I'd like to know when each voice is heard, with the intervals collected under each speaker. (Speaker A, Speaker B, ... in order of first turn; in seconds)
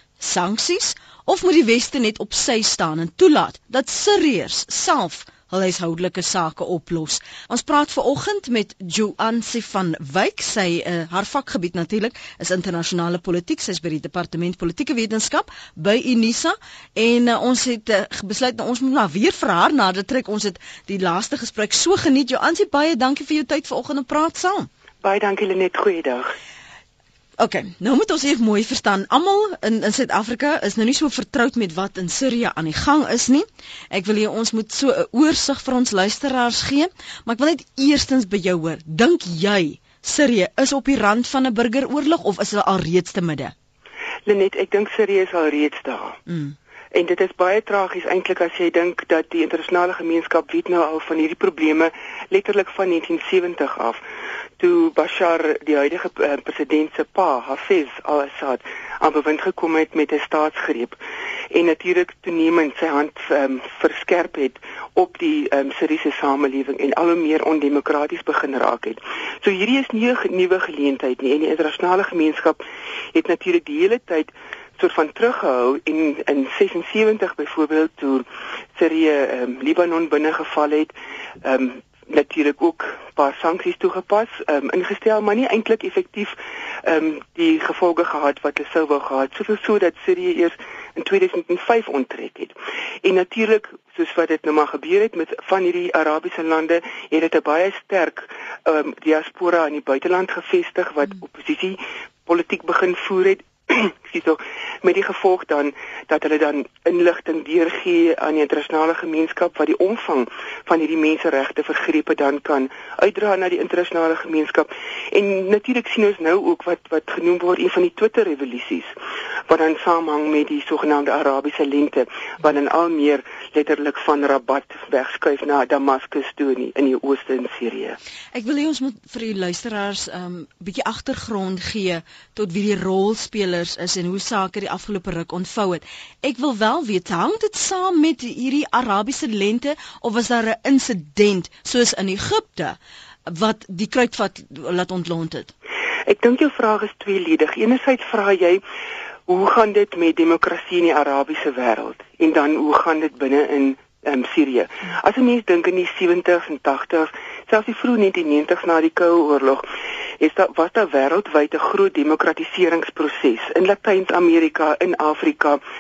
Speaker A: 0.2-24.7, 27.4-43.5, 46.3-46.5, 128.3-145.5
Speaker B: 25.0-26.3, 44.3-46.2, 46.9-54.0, 54.6-61.0, 61.5-72.6, 73.1-78.2, 78.8-118.9, 119.5-128.0, 146.1-148.6, 149.3-159.7, 160.2-165.6